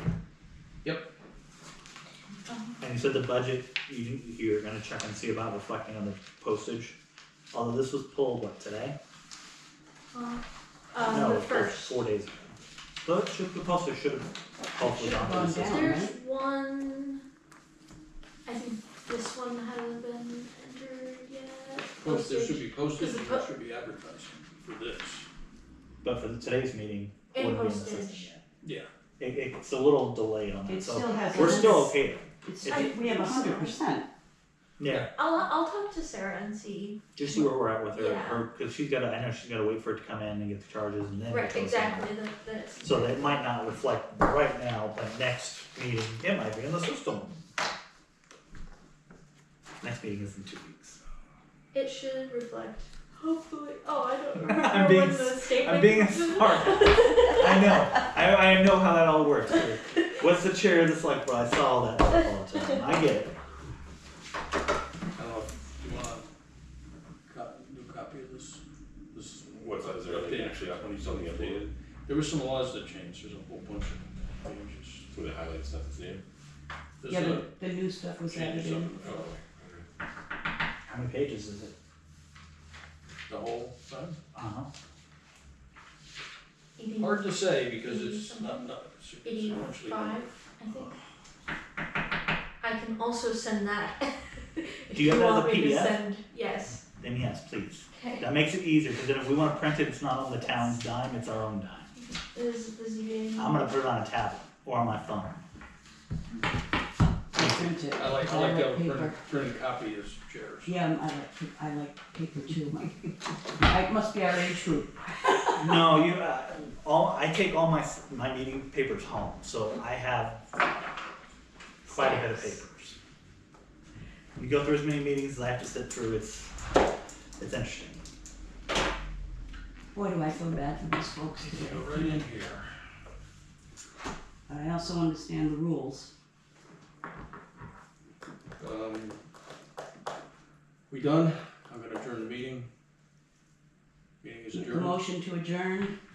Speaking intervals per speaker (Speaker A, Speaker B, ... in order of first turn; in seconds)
Speaker A: 2.5-2.8, 10.1-12.0, 15.6-17.2, 18.4-23.5, 27.3-28.3, 31.3-31.8, 32.6-33.8, 35.1-37.0, 37.9-38.4, 41.3-43.4, 51.7-57.7, 86.8-91.0, 92.6-96.8, 97.9-98.3, 102.0-103.8, 121.9-122.5
Speaker B: 2.8-7.0, 7.5-8.9, 11.0-15.9, 26.0-28.4, 29.2-32.8, 34.8-35.1, 37.1-42.1, 42.8-47.5, 49.8-51.0, 54.4-63.4, 80.8-81.7, 84.3-84.7, 94.9-96.0, 97.0-101.9, 103.3-105.4, 107.3-107.7, 115.5-120.5, 121.8-123.0, 124.3-126.5, 127.4-128.0
Speaker C: 14.8-16.1, 30.7-34.1, 77.1-78.9, 107.3-109.2, 110.7-115.6, 129.9-132.2, 134.5-136.1, 144.5-145.9
Speaker D: 22.0-25.2, 28.6-28.9, 65.1-66.3, 67.3-68.6, 69.1-75.1, 77.0-77.5, 78.3-79.3, 83.3-84.2, 87.0-90.9, 107.9-110.8, 131.4-132.7, 138.6-139.2, 140.9-142.7, 144.2-145.0
Speaker E: 69.5-71.7, 75.1-76.2, 79.0-79.9